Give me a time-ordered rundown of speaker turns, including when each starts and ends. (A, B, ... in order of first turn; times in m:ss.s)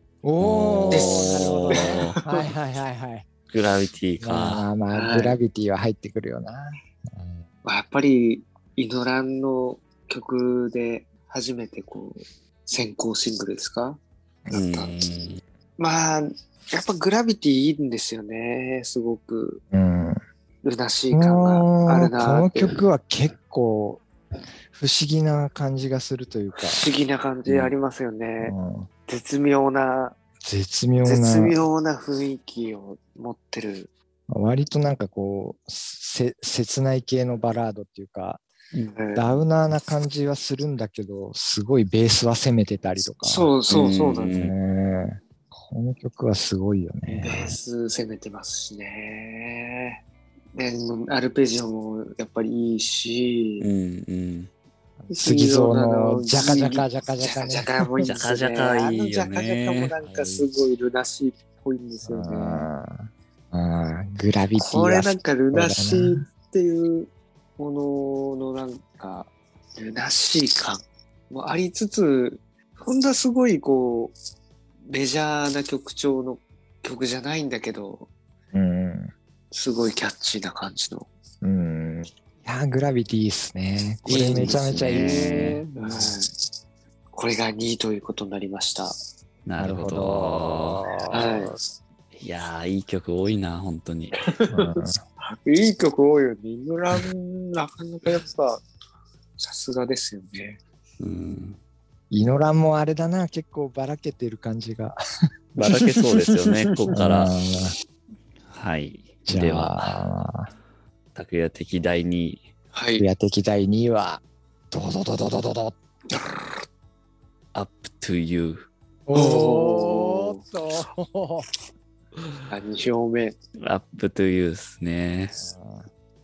0:00.2-0:03.3 A
0:00.4-0:02.2 B
0:00.9-0:02.5 C
0:03.5-0:04.7 B
0:04.2-0:07.4 A
0:04.9-0:05.4 C
0:07.6-0:14.0 C
0:14.5-0:15.4 B
0:14.5-0:15.0 C
0:15.8-0:19.6 C
0:19.7-0:20.2 A
0:20.6-0:22.8 C
0:21.1-0:24.0 A
0:24.7-0:26.8 A
0:26.6-0:28.5 C
0:28.4-0:28.9 A
0:29.1-0:30.2 C
0:30.4-0:31.6 A
0:31.0-0:33.9 C
0:34.3-0:38.4 A
0:39.0-0:39.4 C
0:39.2-0:43.5 A
0:43.2-0:44.4 C
0:43.7-0:44.6 B
0:44.3-0:47.6 A
0:47.1-0:50.0 C
0:50.6-0:53.7 C
0:53.6-0:54.5 B
0:55.0-0:58.1 A
0:55.1-1:02.7 C
0:58.1-0:59.9 B
1:00.0-1:00.5 A
1:02.0-1:06.2 A
1:04.6-1:14.2 C
1:14.9-1:18.1 C
1:18.5-1:19.1 A
1:19.5-1:21.1 C
1:21.4-1:26.2 A
1:24.1-1:26.3 C
1:24.4-1:25.6 B
1:27.1-1:29.0 C
1:29.5-1:30.8 B
1:29.6-1:31.6 A
1:31.1-1:31.5 C
1:32.1-1:34.2 B
1:34.2-1:34.9 C
1:34.5-1:35.0 A
1:35.4-1:38.6 C
1:39.4-1:40.6 C
1:41.0-1:41.6 B
1:42.1-1:45.0 A
1:45.6-1:47.3 B
1:46.2-1:46.6 C
1:46.9-1:47.7 A
1:48.5-1:49.9 B
1:49.3-1:50.5 A
1:51.2-1:52.4 B
1:52.7-1:53.1 C
1:53.0-1:56.5 A
1:57.5-1:58.7 B
1:59.1-2:01.5 A
1:59.1-2:00.4 C
2:02.5-2:03.4 C
2:03.6-2:05.4 B
2:05.4-2:05.9 A